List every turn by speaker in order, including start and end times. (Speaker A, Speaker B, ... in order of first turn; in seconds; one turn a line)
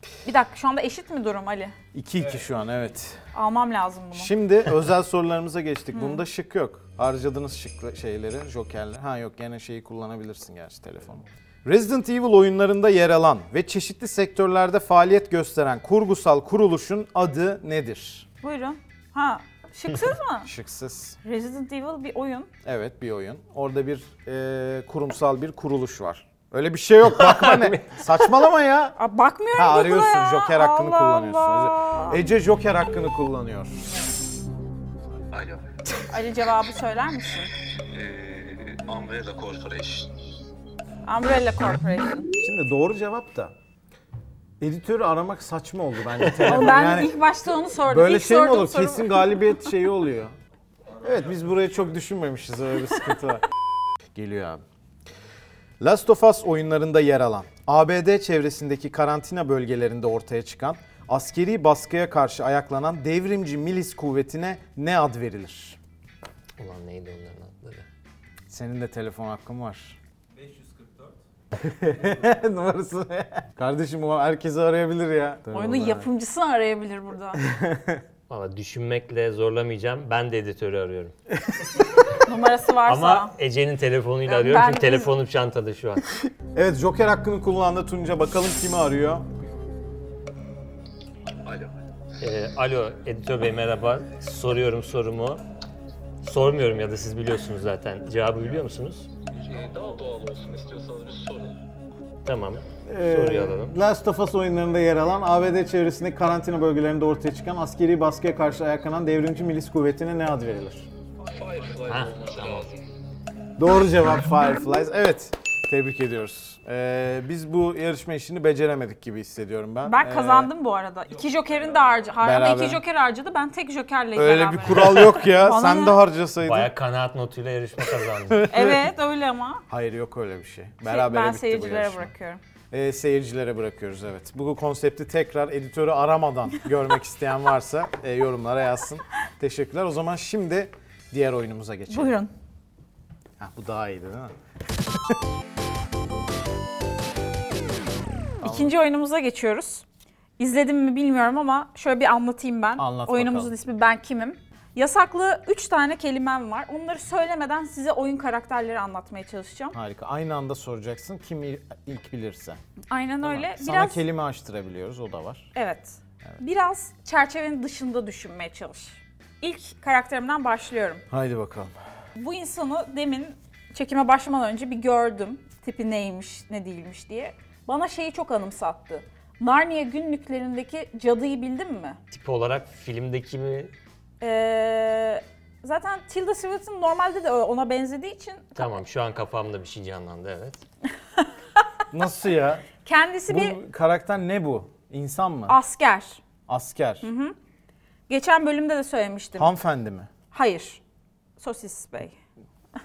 Speaker A: 0.2-1.7
Speaker B: 1.9-3.2
Speaker A: 3.3-4.3
Speaker B: 4.1-18.3
Speaker A: 5.9-6.2
Speaker A: 18.4-20.5
Speaker B: 20.4-21.2
Speaker A: 21.2-22.5
Speaker B: 22.6-29.0
Speaker C: 27.2-28.0
Speaker A: 29.0-32.2
Speaker B: 29.6-33.8
Speaker D: 35.3-35.7
Speaker A: 36.1-37.5
Speaker D: 37.8-40.1
Speaker A: 41.0-42.3
Speaker B: 42.4-43.5
Speaker B: 44.6-47.1
Speaker A: 46.4-49.7
Speaker B: 47.9-50.3
Speaker B: 51.0-53.4
Speaker B: 54.1-54.6
Speaker B: 55.8-65.8
Speaker C: 66.6-67.9
Speaker B: 68.5-70.0
Speaker B: 71.5-76.1
Speaker A: 75.5-77.4
Speaker B: 77.4-78.0
Speaker C: 78.3-81.1
Speaker A: 82.1-83.3
Speaker C: 82.8-86.0
Speaker A: 84.3-85.1
Speaker B: 86.5-89.2
Speaker D: 91.4-91.7
Speaker C: 92.2-95.4
Speaker C: 96.2-99.1
Speaker D: 99.4-101.6
Speaker C: 102.2-103.8
Speaker B: 102.9-110.9
Speaker D: 111.2-112.8
Speaker C: 111.9-112.4
Speaker B: 113.6-120.5
Speaker A: 119.8-126.0
Speaker B: 122.2-122.8
Speaker B: 124.2-126.7
Speaker C: 126.4-128.4
Speaker B: 128.3-128.8
Speaker A: 128.5-129.6
Speaker B: 129.7-132.1
Speaker A: 130.9-132.4
Speaker B: 132.7-142.1
Speaker A: 141.9-142.3
Speaker B: 143.4-144.3
Speaker B: 148.4-148.7
Speaker A: 148.4-149.8
Speaker A: 150.4-159.8
Speaker B: 152.8-153.5
Speaker B: 159.7-162.6
Speaker A: 162.9-164.0
Speaker B: 163.2-165.5
Speaker A: 165.5-171.0
Speaker B: 171.1-171.7
Speaker A: 172.2-182.0
Speaker C: 182.1-183.7
Speaker A: 184.2-188.7
Speaker C: 188.6-190.6
Speaker B: 191.9-192.7
Speaker A: 192.8-193.6
Speaker B: 193.3-195.6
Speaker A: 195.5-196.2
Speaker B: 196.5-197.1
Speaker A: 197.0-197.3
Speaker A: 198.1-199.5
Speaker B: 199.4-200.1
Speaker A: 200.3-200.8
Speaker A: 201.4-202.1